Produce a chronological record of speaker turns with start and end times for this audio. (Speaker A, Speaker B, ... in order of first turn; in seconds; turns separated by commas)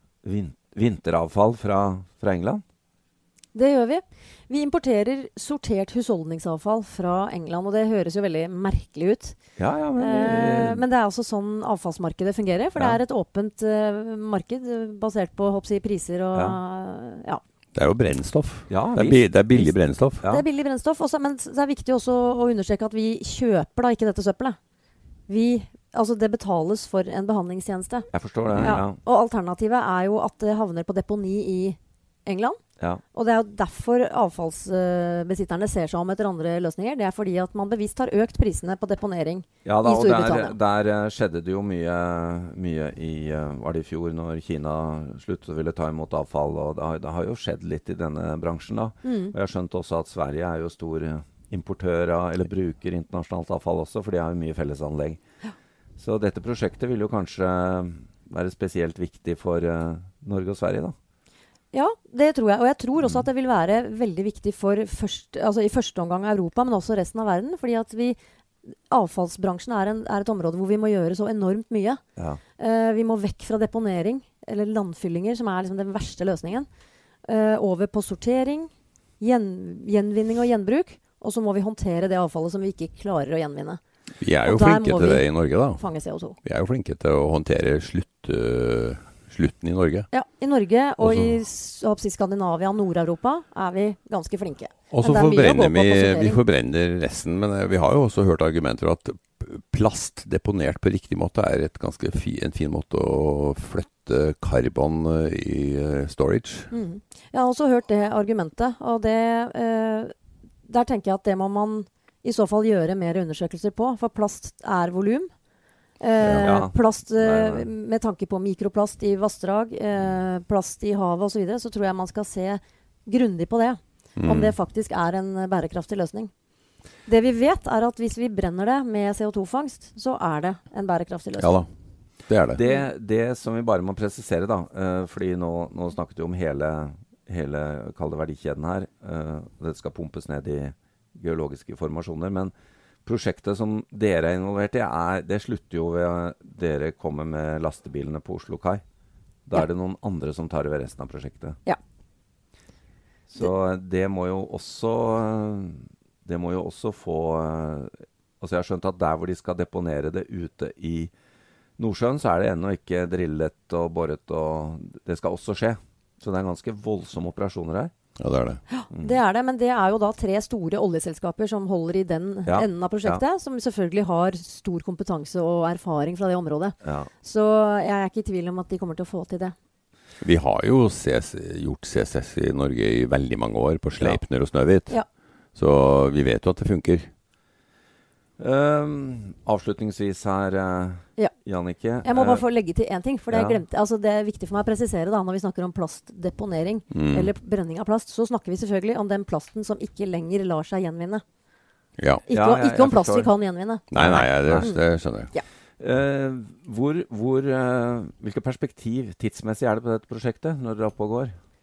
Speaker A: 0.2-2.6, Speaker B: 3.5-9.4, Speaker A: 9.6-10.8, Speaker B: 10.0-17.4, Speaker A: 12.8-13.0, Speaker A: 16.3-16.6, Speaker C: 17.8-20.3, Speaker A: 18.7-19.7, Speaker B: 20.2-24.6, Speaker B: 25.3-28.1, Speaker A: 28.1-29.0, Speaker C: 28.5-28.8, Speaker B: 28.6-32.6, Speaker B: 33.1-40.6, Speaker A: 39.6-55.2, Speaker B: 49.0-49.3, Speaker A: 56.0-61.0, Speaker B: 61.7-68.2, Speaker B: 68.9-72.0, Speaker B: 72.6-76.7, Speaker B: 77.2-83.8, Speaker C: 84.2-85.8, Speaker B: 84.4-86.4, Speaker C: 86.4-90.1, Speaker B: 90.1-96.4, Speaker C: 91.0-91.4, Speaker C: 94.9-106.7, Speaker B: 106.7-110.1, Speaker B: 110.7-115.3, Speaker B: 116.0-126.3, Speaker C: 116.2-116.5, Speaker A: 116.4-117.7, Speaker C: 124.2-124.5, Speaker B: 127.1-131.6, Speaker C: 131.4-131.7, Speaker C: 132.3-132.6, Speaker A: 132.5-142.5, Speaker A: 143.1-148.8, Speaker A: 149.5-151.6, Speaker A: 153.3-161.1, Speaker A: 161.8-167.9, Speaker C: 168.2-168.6, Speaker B: 168.7-179.6, Speaker A: 168.9-169.2, Speaker A: 172.5-173.2, Speaker A: 176.8-177.1, Speaker C: 180.2-185.0, Speaker C: 185.6-187.1, Speaker A: 188.4-192.4, Speaker B: 192.0-201.2, Speaker A: 193.3-193.6, Speaker C: 196.9-197.3, Speaker C: 202.0-202.3, Speaker B: 202.3-204.8, Speaker A: 202.3-203.3, Speaker C: 203.9-205.3, Speaker A: 203.9-204.8, Speaker A: 205.8-211.3